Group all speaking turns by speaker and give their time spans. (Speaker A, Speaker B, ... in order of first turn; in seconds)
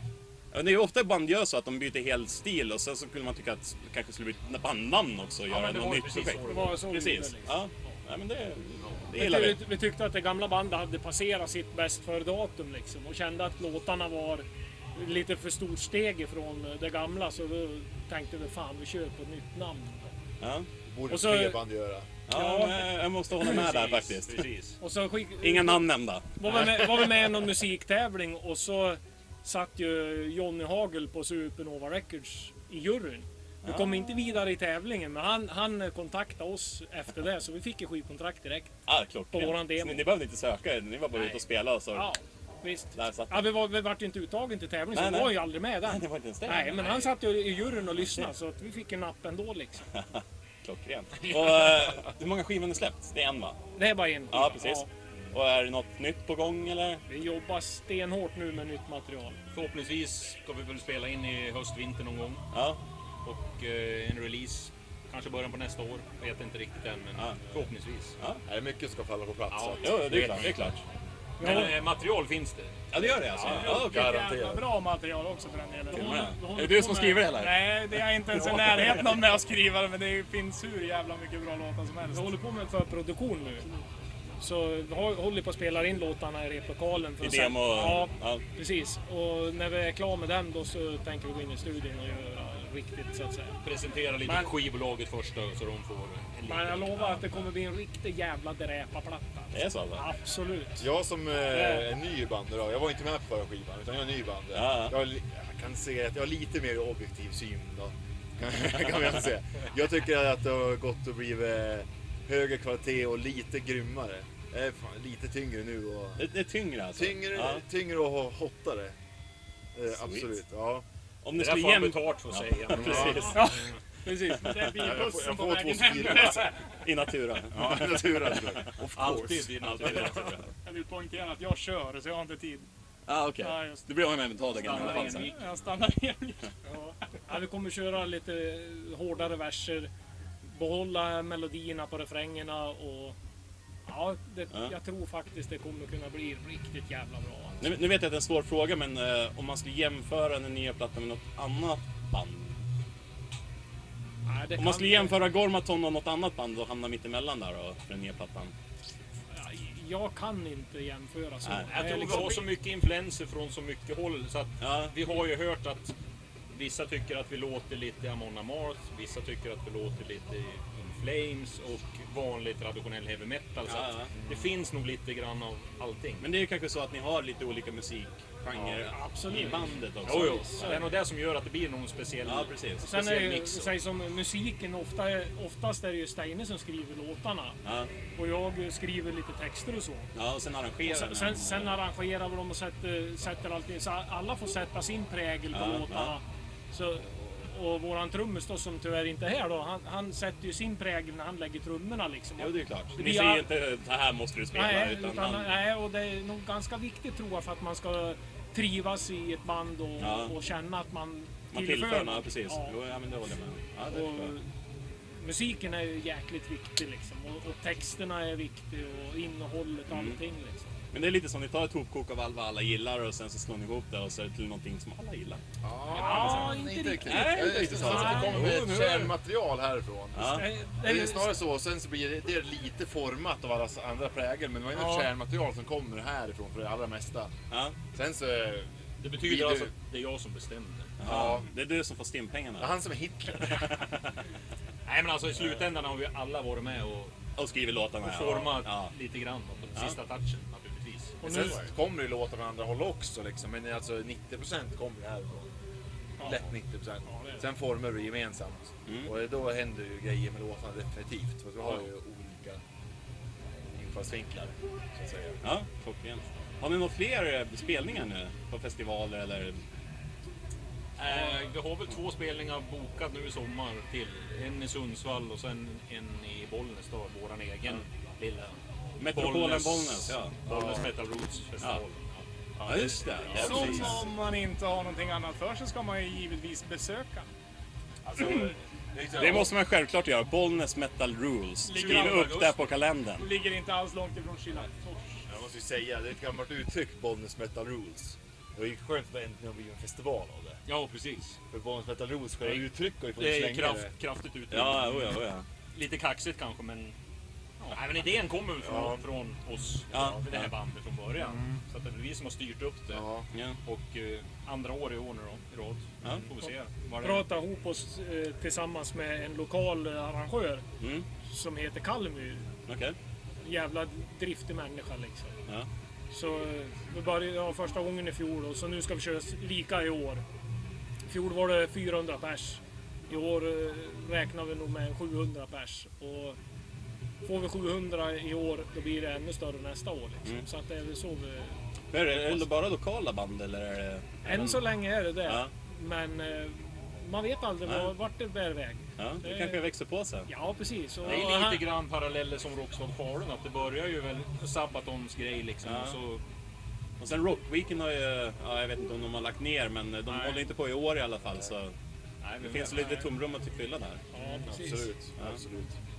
Speaker A: 0.5-9.6, 20.4-20.7, 22.3-24.3, 25.4-26.6, 38.9-42.1, 42.9-43.4, 44.9-47.1, 50.0-53.6, 54.3-57.0, 62.5-62.8, 69.8-70.8, 72.9-74.1, 75.9-79.0, 87.2-88.4, 99.5-100.0, 104.5-104.9, 116.2-117.6, 120.0-120.3, 121.2-123.5, 124.3-124.9, 126.7-128.0, 129.6-130.3, 133.1-135.3, 147.6-152.6, 154.6-158.5, 161.4-162.3, 164.6-164.9, 173.7-174.1, 176.2-180.8, 182.2-182.8, 187.6-187.9, 190.1-191.7, 195.5-196.1, 202.4-205.5, 210.0-210.3, 211.5-214.3, 219.9-220.2, 220.9-225.4, 226.1-226.5, 227.0-229.1, 230.1-230.5, 237.5-237.8, 241.0-242.7, 243.7-244.0, 247.4-248.9, 265.4-269.6, 279.0-280.3, 282.6-284.1, 289.1-293.3, 304.5-305.4, 309.9-310.5, 313.3-313.6, 320.8-321.1, 322.7-322.9, 341.9-344.6, 345.2-345.5, 349.0-350.3, 351.0-351.3, 355.6-356.0, 357.0-361.7, 362.4-364.0
Speaker B: 5.5-6.8, 23.4-24.8, 59.5-62.4, 63.2-68.1, 69.5-70.6, 71.4-73.8, 93.6-97.5, 121.3-123.3, 128.9-130.5, 134.5-135.5, 161.7-165.9, 166.5-176.3, 178.5-178.8, 180.0-183.8, 239.0-241.0, 244.8-247.1, 248.0-251.2, 271.0-278.6, 279.1-283.8, 291.8-292.7, 300.6-301.4, 302.4-305.2, 305.7-306.9, 307.6-313.1, 313.6-317.3, 351.0-356.2, 360.1-360.5, 362.2-363.1
Speaker C: 6.4-7.9, 9.1-20.1, 21.1-21.6, 22.3-23.0, 24.8-38.8, 39.3-40.2, 41.9-49.9, 53.7-54.9, 57.1-59.4, 71.4-71.7, 75.9-77.3, 82.1-83.7, 84.4-93.5, 96.4-100.8, 101.5-101.9, 123.1-124.6, 136.7-139.9, 140.4-143.2, 143.8-147.7, 154.2-155.2, 159.3-162.5, 178.8-180.9, 182.8-190.1, 190.8-203.5, 204.5-212.8, 213.8-214.4, 215.2-220.7, 225.9-228.6, 230.2-231.3, 251.2-251.7, 317.0-320.6, 321.2-322.5, 323.4-325.4, 326.1-330.2, 331.1-336.4, 337.2-341.6, 344.2-349.7, 350.2-351.7, 364.1-364.9
Speaker D: 20.9-22.1, 68.5-70.3, 73.4-74.6, 100.8-116.3, 116.9-119.0, 119.7-120.8, 122.7-123.2, 124.6-126.5, 127.5-129.5, 225.6-237.3, 237.9-239.7, 241.0-241.5, 242.6-243.7, 251.2-255.5, 256.2-262.6, 263.7-265.4, 280.5-280.8, 288.1-289.6, 295.3-300.6, 301.5-303.9, 308.6-309.0, 312.9-313.3, 364.4-365.7
Speaker E: 71.4-71.7, 73.5-76.4, 77.3-82.3, 124.4-126.6, 130.6-132.7, 133.3-133.8, 134.7-136.5, 283.3-287.3, 291.6-292.5, 293.1-295.3